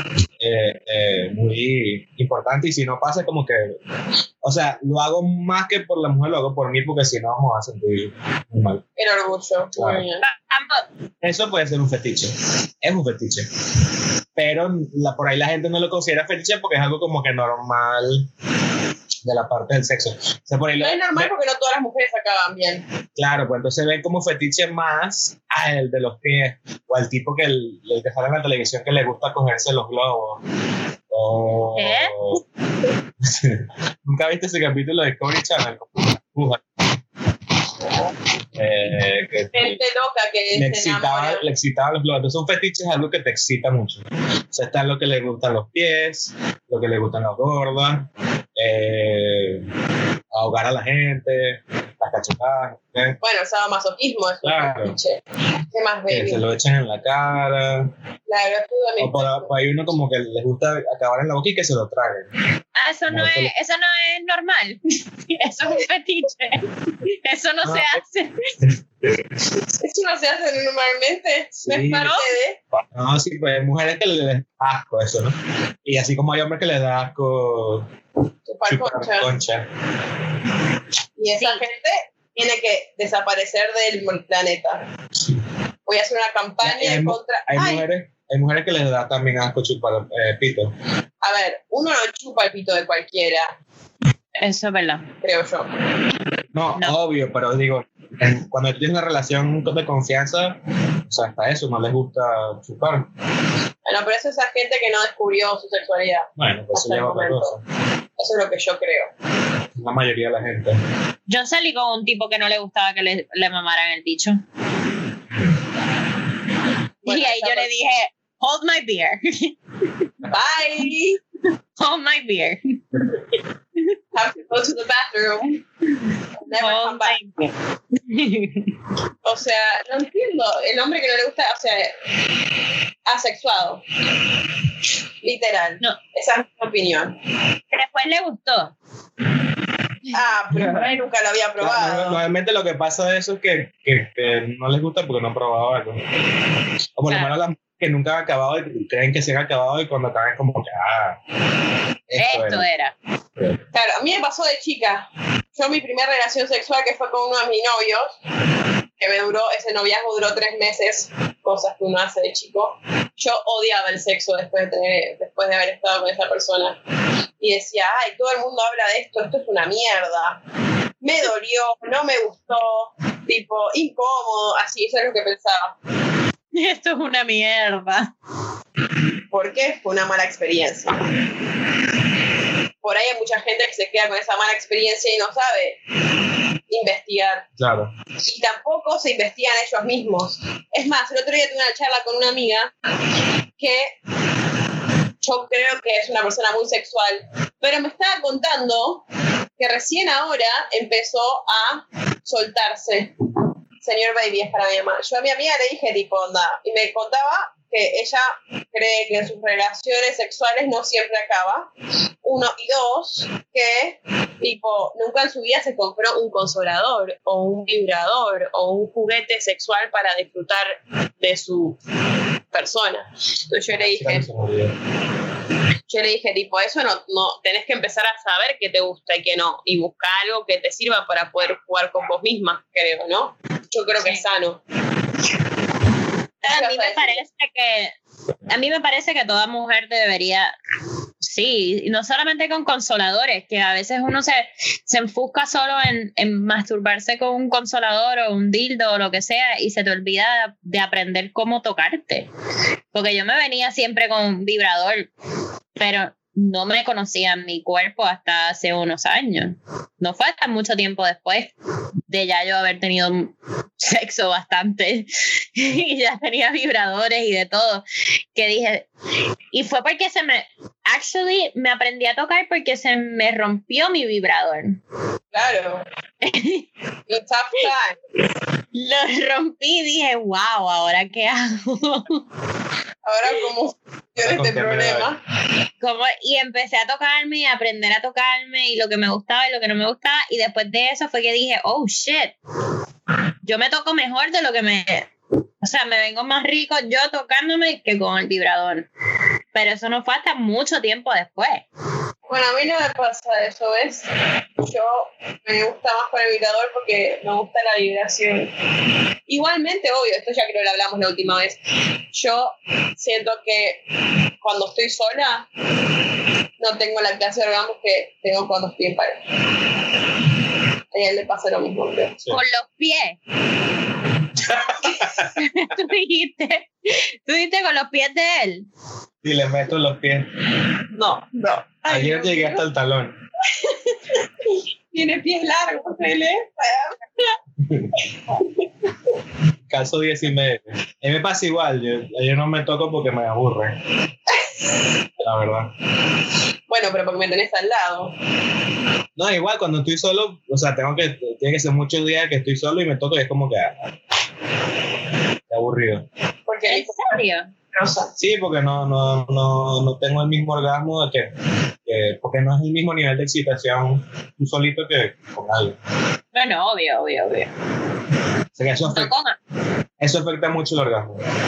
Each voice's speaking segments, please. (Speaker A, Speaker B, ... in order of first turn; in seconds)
Speaker A: 0.4-3.8, 4.4-8.8, 9.8-10.1, 11.2-13.5, 14.4-18.3, 19.2-21.3, 23.2-30.4, 31.1-32.4, 33.2-36.6, 38.5-39.8, 40.5-49.7, 50.3-53.2, 54.4-55.0, 56.1-57.9, 59.0-62.3, 63.1-63.5, 67.6-68.0, 71.6-72.2, 72.9-77.9, 78.7-79.7, 86.6-90.7, 96.5-103.1, 106.4-107.6, 109.8-110.8, 140.5-140.9, 141.6-146.0, 147.0-151.2, 152.1-152.7, 187.6-187.9, 223.7-224.8, 284.2-285.1, 324.4-325.4, 329.2-330.3, 331.9-333.2, 337.6-338.0, 339.7-343.8, 345.2-345.7, 349.2-353.8, 355.5-356.1, 358.2-361.3, 361.9-365.8, 368.6-369.1, 370.0-371.2
Speaker B: 9.0-10.2, 20.8-22.8, 39.5-41.5, 53.2-55.2, 55.7-56.5, 58.3-59.5, 69.8-72.6, 78.5-79.3, 81.2-84.8, 85.9-87.8, 91.2-93.5, 95.2-95.7, 103.9-107.5, 108.2-109.1, 117.0-117.7, 120.3-121.2, 124.1-125.6, 126.4-127.2, 129.2-131.9, 133.1-133.8, 135.2-137.2, 140.1-142.2, 153.7-158.2, 159.0-166.8, 167.4-170.4, 171.0-175.8, 179.3-181.0, 182.8-185.8, 186.7-187.5, 188.3-192.7, 193.6-193.9, 195.2-199.1, 199.6-203.3, 203.8-211.7, 212.2-221.8, 222.5-224.3, 225.9-234.6, 236.4-237.2, 275.3-275.9, 277.1-278.0, 283.0-285.2, 302.3-304.1, 304.6-308.5, 309.3-311.6, 312.1-313.8, 314.4-315.5, 316.6-319.2, 320.9-322.2, 330.9-332.6, 333.5-337.1, 346.7-348.1, 356.5-357.2, 357.7-358.1
Speaker C: 10.2-10.8, 31.8-32.1, 62.8-68.5, 72.0-72.3, 81.4-81.6, 94.4-95.1, 111.3-114.4, 117.1-119.6, 121.8-123.2, 126.5-128.7, 137.7-138.7, 152.2-152.9, 176.5-178.1, 236.4-237.9, 238.5-240.5, 241.2-252.3, 252.9-255.1, 255.8-261.5, 262.1-268.9, 269.5-274.8, 276.2-276.7, 278.7-282.2, 285.8-292.4, 293.4-295.1, 295.6-298.9, 299.5-301.7, 322.3-323.2, 325.2-328.7, 356.7-357.5, 366.3-367.5, 368.9-369.4